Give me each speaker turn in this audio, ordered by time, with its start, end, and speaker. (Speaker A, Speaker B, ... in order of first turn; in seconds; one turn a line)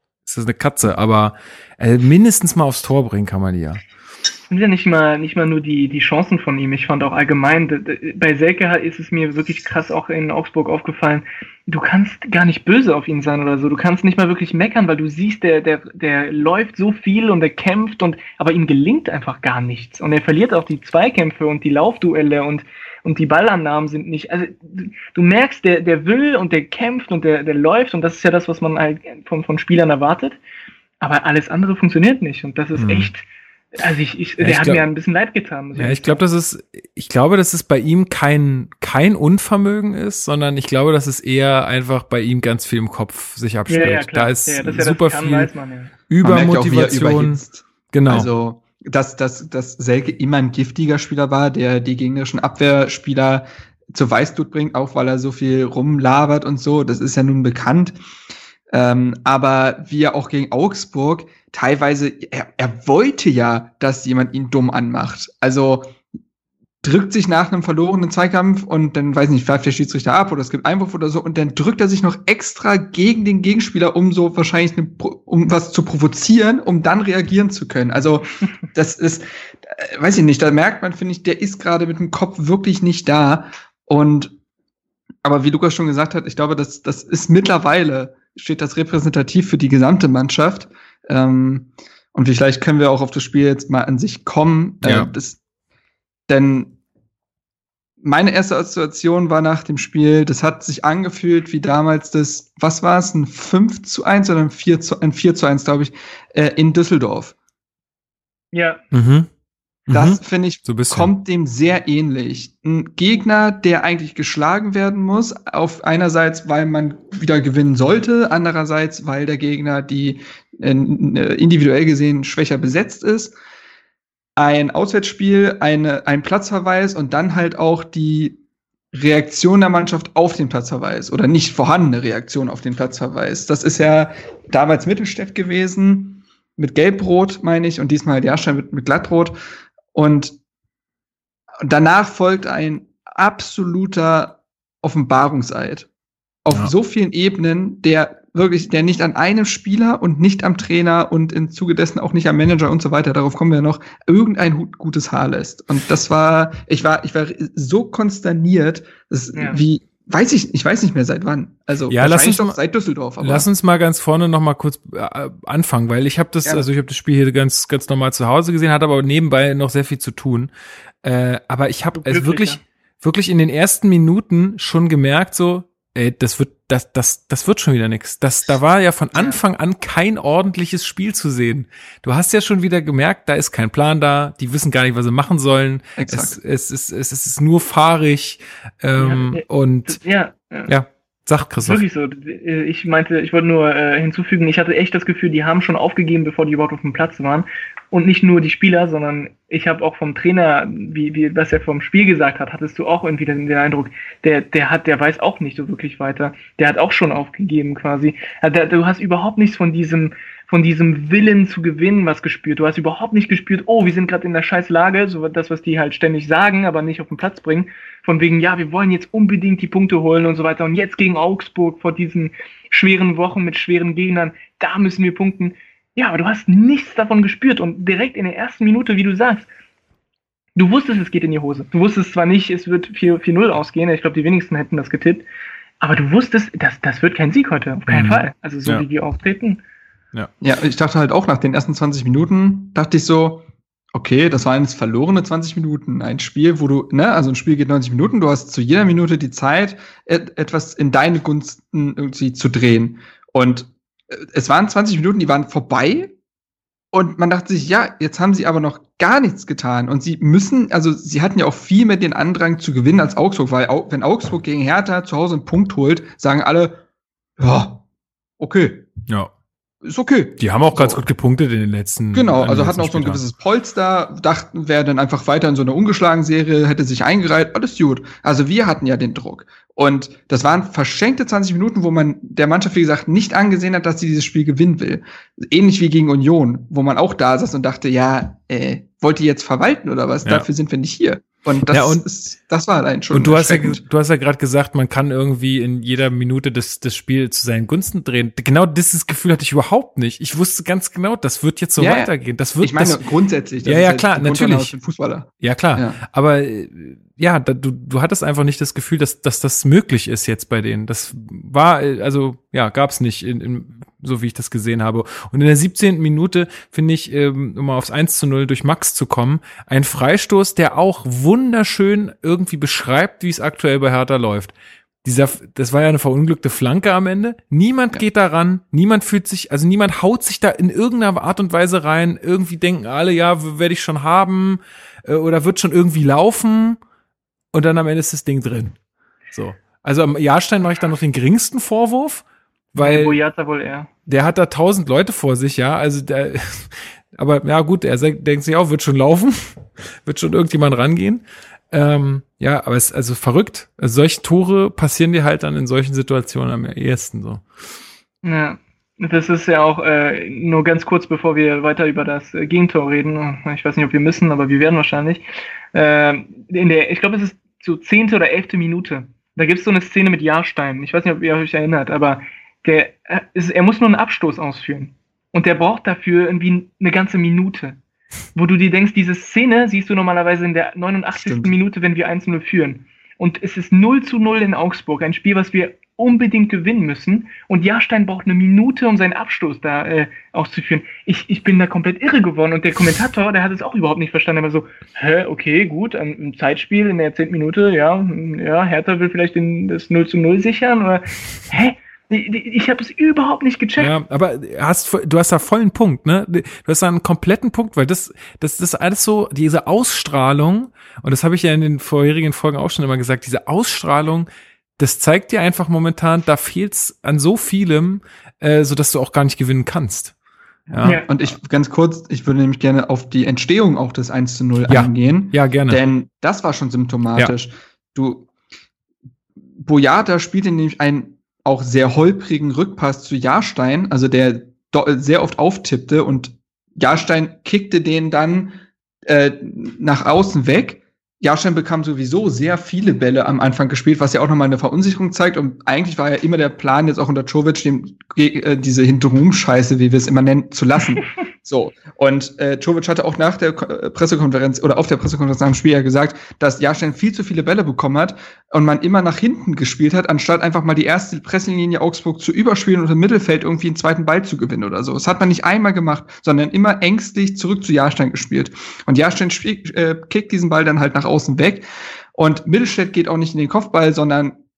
Speaker A: 0.3-3.8
Speaker B: 4.5-30.4
Speaker B: 31.0-36.2
Speaker A: 32.8-33.1
Speaker A: 34.4-34.8
Speaker A: 35.8-45.5
Speaker B: 43.7-45.9
Speaker A: 46.1-47.4
Speaker C: 46.2-58.0
Speaker A: 47.9-48.3
Speaker C: 58.7-65.9
Speaker C: 66.8-84.4
Speaker C: 85.2-95.4
Speaker A: 94.8-95.1
Speaker C: 96.3-96.8
Speaker C: 98.0-107.3
Speaker B: 108.5-108.8
Speaker A: 108.9-109.3
Speaker A: 109.9-111.1
Speaker C: 109.9-123.3
Speaker C: 124.4-128.4
Speaker C: 128.9-139.4
Speaker C: 139.9-140.4
Speaker C: 141.6-145.9
Speaker C: 146.4-163.5
Speaker B: 159.3-159.6
Speaker A: 161.9-162.6
Speaker A: 163.2-170.5
Speaker A: 171.0-190.0
Speaker B: 171.9-172.6
Speaker C: 186.0-186.4
Speaker B: 189.0-190.7
Speaker A: 190.7-191.8
Speaker B: 191.6-229.5
Speaker B: 230.6-235.2
Speaker B: 235.8-239.6
Speaker A: 237.9-238.8
Speaker C: 240.4-256.1
Speaker C: 256.9-266.8
Speaker C: 267.4-267.8
Speaker C: 268.4-268.9
Speaker C: 269.8-271.0
Speaker A: 270.4-273.2
Speaker C: 272.1-293.8
Speaker A: 291.7-292.1
Speaker A: 293.1-303.0
Speaker C: 301.8-306.0
Speaker A: 303.6-304.7
Speaker A: 305.4-324.5
Speaker A: 325.0-336.8
Speaker A: 337.5-338.8
Speaker A: 339.3-343.2
Speaker B: 342.8-343.9
Speaker A: 344.1-357.4
Speaker B: 358.2-377.8
Speaker B: 378.4-403.9
Speaker C: 381.2-381.5
Speaker A: 403.8-414.3
Speaker A: 414.8-420.1
Speaker C: 420.7-428.3
Speaker A: 420.7-421.0
Speaker A: 424.7-425.8
Speaker C: 429.6-438.6
Speaker C: 439.1-474.4